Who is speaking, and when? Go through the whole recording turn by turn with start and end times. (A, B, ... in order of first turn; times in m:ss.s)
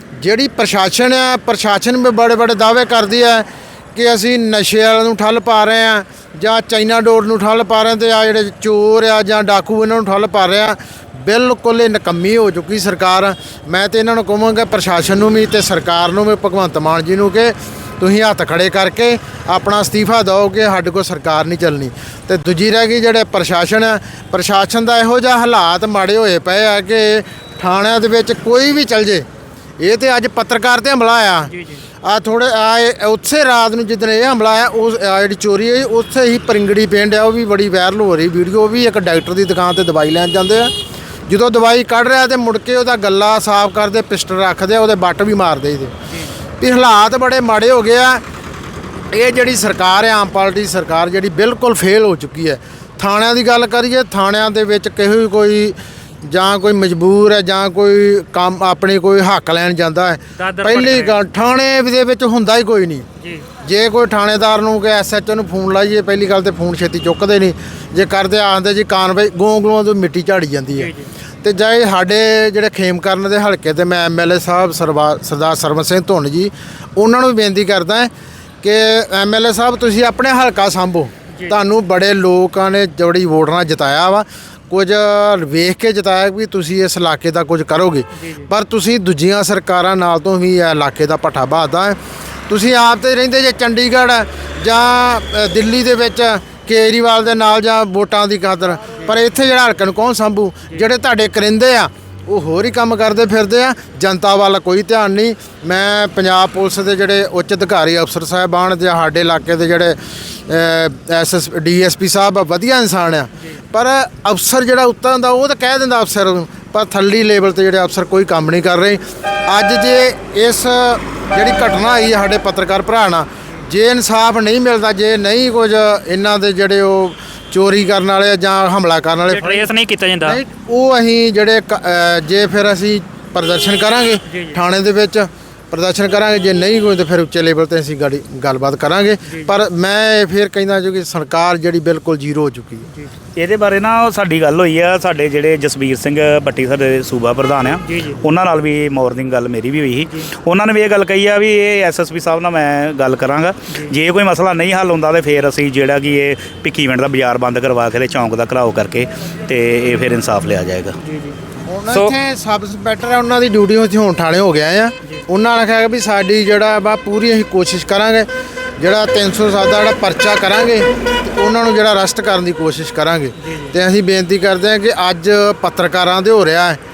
0:00.2-0:29.3 A
0:29.8-0:31.5 A
0:31.5-0:31.8 B
0:32.0-0:40.7 A
0:41.3-0:45.9 A
0:46.1-0:46.4 B
0:46.6-0:48.2 A
0:49.1-1:03.1 A
1:00.4-1:01.2 B
1:03.2-1:03.5 B
1:03.6-1:10.9 A
1:10.7-1:11.1 B
1:11.4-1:18.1 A
1:18.6-1:32.0 A
1:21.3-1:21.6 B
1:28.2-1:28.5 B
1:32.5-2:09.7 A
1:53.4-1:53.6 B
2:09.3-2:10.4 B
2:10.2-2:22.9 A
2:14.3-2:14.6 B
2:19.3-2:19.5 B
2:23.4-2:41.0 C
2:27.8-2:28.2 B
2:41.0-2:41.4 B
2:41.6-2:48.3 A
2:48.8-2:56.8 A
2:53.4-2:53.8 B